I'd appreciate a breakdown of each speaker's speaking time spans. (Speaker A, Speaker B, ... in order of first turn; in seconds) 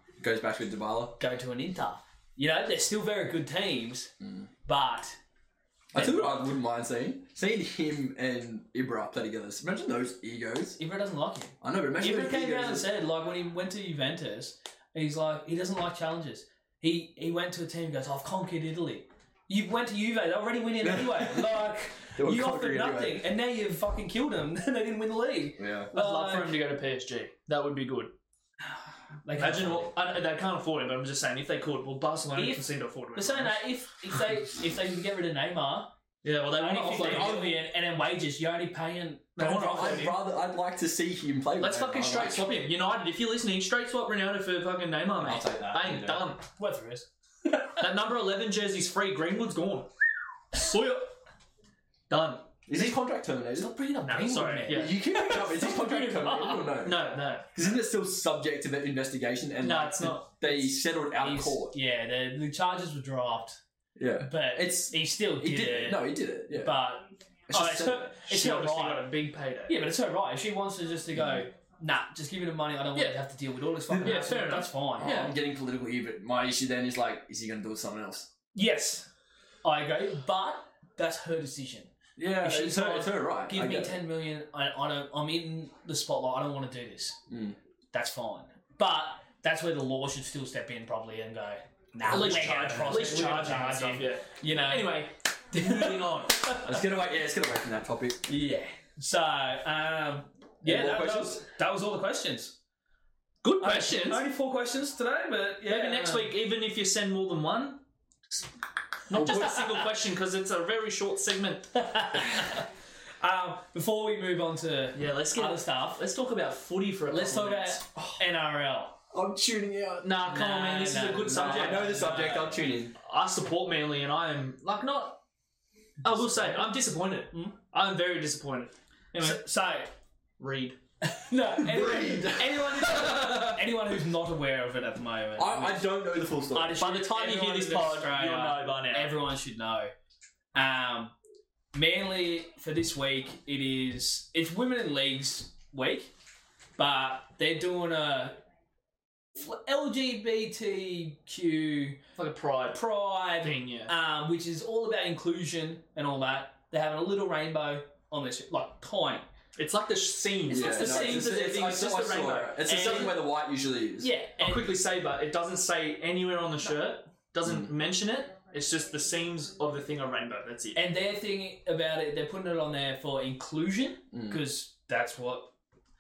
Speaker A: 0.2-1.2, 4.2-4.5, 5.9-10.8, 11.6-12.9, 20.8-21.6, 22.2-23.2, 25.6-25.9, 37.0-37.5, 39.5-42.5, 45.2-46.3, 52.7-53.7, 54.7-61.8, 64.0-66.8, 67.5-68.1, 71.1-71.4, 75.0-78.3, 82.2-84.0, 87.3-87.6, 92.0-93.0, 96.6-98.3, 100.6-101.4, 119.1-120.2, 121.2-122.9, 131.6-133.8, 135.4-136.8, 160.5-164.1, 174.1-174.4
Speaker B: 1.2-4.1, 4.7-5.2, 5.9-6.3, 10.8-26.6, 29.2-29.9, 32.4-35.9, 36.5-40.2, 46.6-47.1, 53.5-55.0, 61.2-63.6, 64.2-69.1, 69.7-75.1, 78.5-79.1, 79.6-81.9, 82.4-87.2, 87.9-96.8, 98.3-102.5, 103.6-106.3, 109.1-109.9, 111.8-112.7, 113.2-116.1, 117.1-119.0, 120.2-122.2, 126.0-126.8, 127.3-127.6, 129.2-129.9, 131.1-135.8, 136.5-139.9, 140.6-141.1, 141.7-146.1, 146.8-148.4, 149.3-152.0, 152.7-159.3, 160.5-161.4, 162.7-163.2, 164.0-164.8, 170.8-175.5
Speaker C: 25.9-28.1, 29.4-33.7, 36.2-37.6, 39.4-40.1, 41.6-46.5, 47.8-49.9, 50.5-51.1, 52.1-52.6, 54.1-57.8, 59.6-60.3, 68.2-69.8, 73.9-75.3, 92.0-96.6, 103.4-104.2, 105.6-107.8, 109.1-111.8, 114.9-117.8, 120.0-125.2, 126.0-129.4, 130.4-130.8, 132.4-133.2, 136.8-139.2, 152.2-152.8, 153.4-153.9, 159.6-163.2, 164.4-170.8